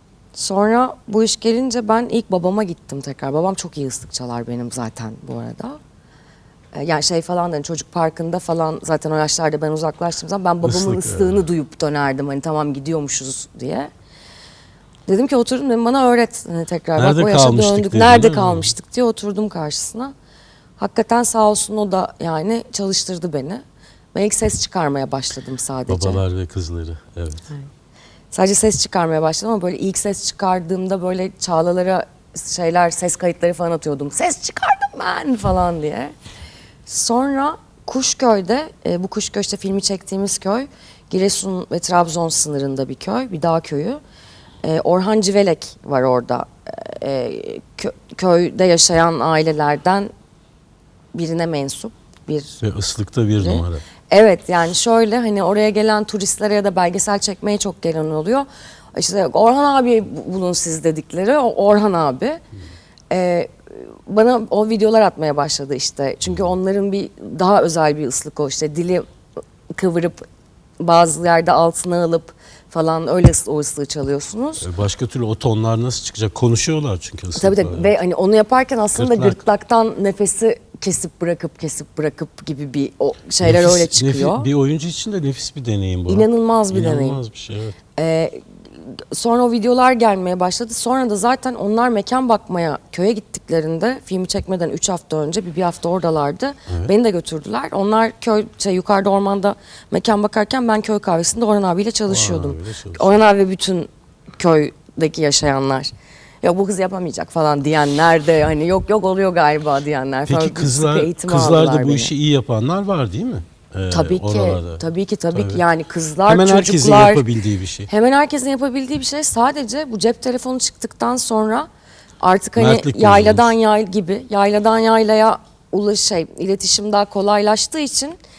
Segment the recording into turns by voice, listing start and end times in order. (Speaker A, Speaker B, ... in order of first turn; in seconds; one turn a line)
Speaker A: 0.3-5.8
Speaker A: 6.7-13.9
Speaker B: 10.6-11.4
Speaker A: 15.1-20.1
Speaker B: 17.0-18.7
Speaker A: 20.8-23.6
Speaker A: 24.1-26.2
Speaker B: 25.9-27.5
Speaker A: 28.3-36.1
Speaker A: 36.9-44.0
Speaker A: 44.6-50.1
Speaker A: 51.1-52.6
Speaker B: 52.6-53.8
Speaker A: 53.4-62.4
Speaker A: 63.1-69.1
Speaker B: 66.3-66.5
Speaker A: 69.8-70.2
Speaker A: 70.8-74.7
Speaker B: 74.6-77.9
Speaker A: 77.3-84.5
Speaker B: 79.0-79.4
Speaker B: 83.4-87.8
Speaker A: 86.1-87.2
Speaker A: 87.9-112.1
Speaker B: 96.7-96.9
Speaker B: 102.1-103.2
Speaker B: 110.3-115.6
Speaker A: 113.9-117.3
Speaker B: 116.2-117.9
Speaker A: 117.9-121.7
Speaker A: 122.2-128.2
Speaker B: 122.6-123.5